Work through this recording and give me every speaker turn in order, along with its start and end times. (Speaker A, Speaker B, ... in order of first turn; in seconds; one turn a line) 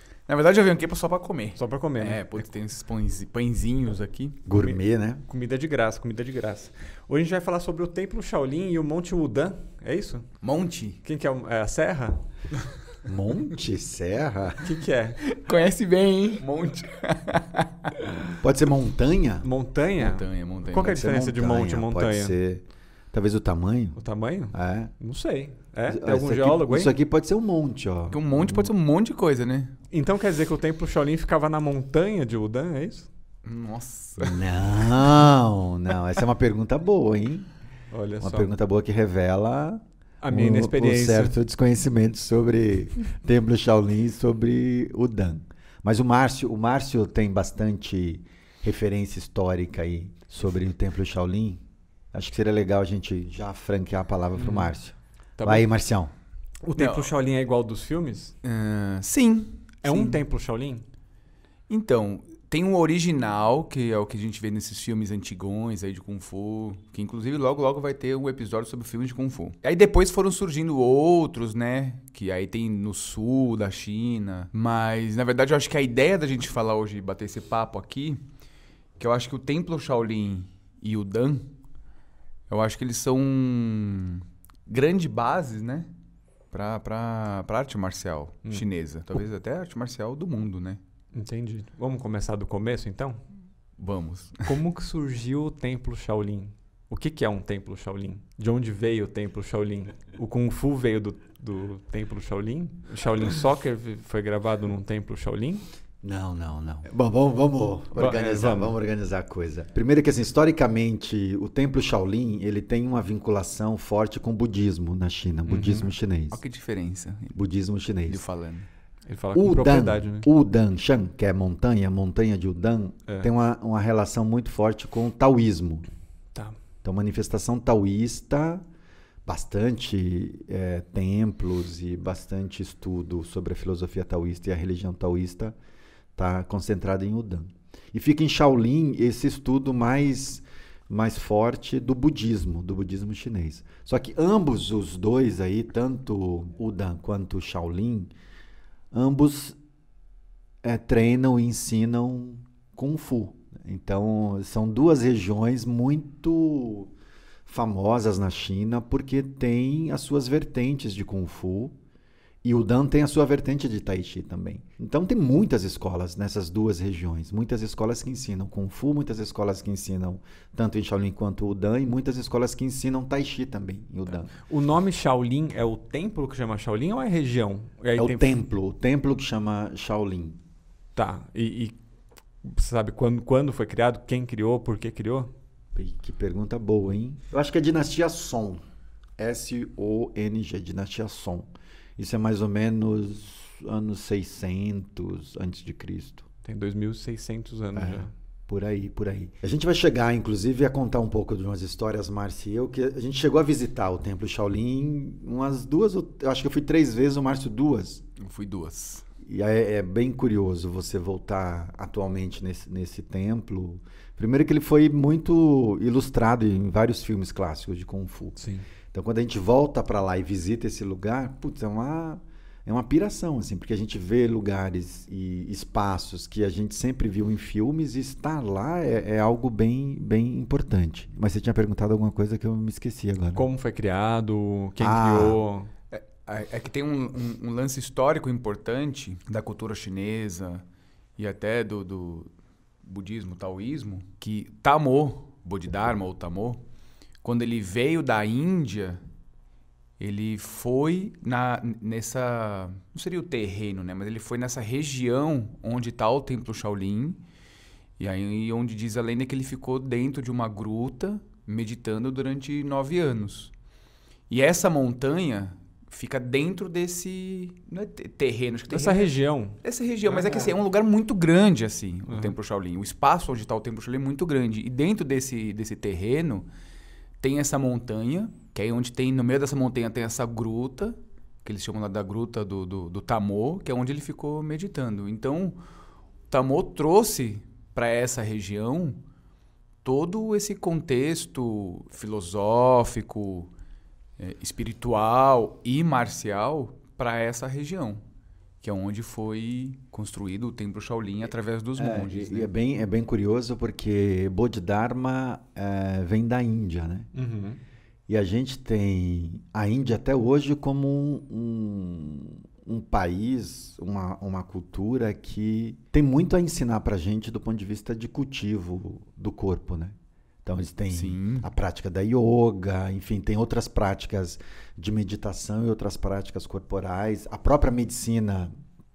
Speaker A: 0.3-4.4
Speaker B: 1.6-2.2
Speaker C: 4.5-5.2
Speaker B: 4.5-10.3
Speaker A: 10.4-11.0
Speaker B: 11.0-12.2
Speaker C: 13.0-14.7
Speaker B: 14.6-15.2
Speaker A: 15.2-17.9
Speaker C: 18.4-19.4
Speaker B: 19.4-22.3
Speaker A: 20.0-21.0
Speaker C: 20.7-24.0
Speaker B: 24.0-26.9
Speaker C: 24.5-24.9
Speaker C: 25.9-28.7
Speaker A: 28.1-29.7
Speaker B: 29.9-33.1
Speaker A: 33.4-35.1
Speaker C: 34.2-37.5
Speaker B: 37.9-38.5
Speaker C: 38.2-51.6
Speaker B: 40.2-41.3
Speaker C: 52.1-56.1
Speaker B: 54.4-54.7
Speaker B: 55.4-55.6
Speaker B: 56.6-58.3
Speaker A: 56.8-57.1
Speaker A: 58.4-60.2
Speaker B: 59.8-60.8
Speaker A: 61.7-78.2
Speaker A: 79.0-81.5
Speaker A: 82.5-85.9
Speaker A: 86.5-90.8
Speaker B: 91.1-93.2
Speaker A: 93.8-94.5
Speaker B: 94.4-105.6
Speaker C: 106.0-116.4
Speaker B: 107.9-108.7
Speaker B: 115.5-115.9
Speaker A: 116.3-117.4
Speaker C: 117.3-118.2
Speaker A: 118.1-118.7
Speaker B: 119.1-120.3
Speaker C: 119.3-125.8
Speaker C: 126.8-128.6
Speaker C: 129.2-135.6
Speaker C: 136.1-148.1
Speaker C: 148.9-149.6
Speaker C: 150.6-156.9
Speaker C: 157.4-161.8
Speaker C: 162.4-174.3
Speaker B: 174.4-178.4
Speaker C: 178.0-180.4
Speaker B: 180.9-181.8
Speaker B: 182.4-185.3
Speaker C: 185.7-188.6
Speaker C: 189.2-196.2
Speaker B: 196.4-198.1
Speaker C: 197.7-208.0
Speaker A: 208.2-209.1
Speaker C: 209.2-218.4
Speaker B: 218.4-218.7
Speaker C: 218.9-233.4
Speaker B: 233.3-235.7
Speaker C: 234.8-235.4
Speaker A: 235.9-240.6
Speaker A: 241.2-242.3
Speaker A: 242.8-246.6
Speaker A: 247.2-249.0
Speaker A: 250.0-257.2
Speaker A: 258.0-263.5
Speaker A: 264.3-276.5
Speaker B: 268.7-269.6
Speaker A: 277.2-285.6
Speaker A: 286.3-289.0
Speaker A: 289.8-293.5
Speaker A: 294.2-298.0
Speaker A: 298.6-302.5
Speaker C: 301.8-307.1
Speaker B: 307.1-307.6
Speaker C: 308.1-328.5
Speaker A: 320.9-321.5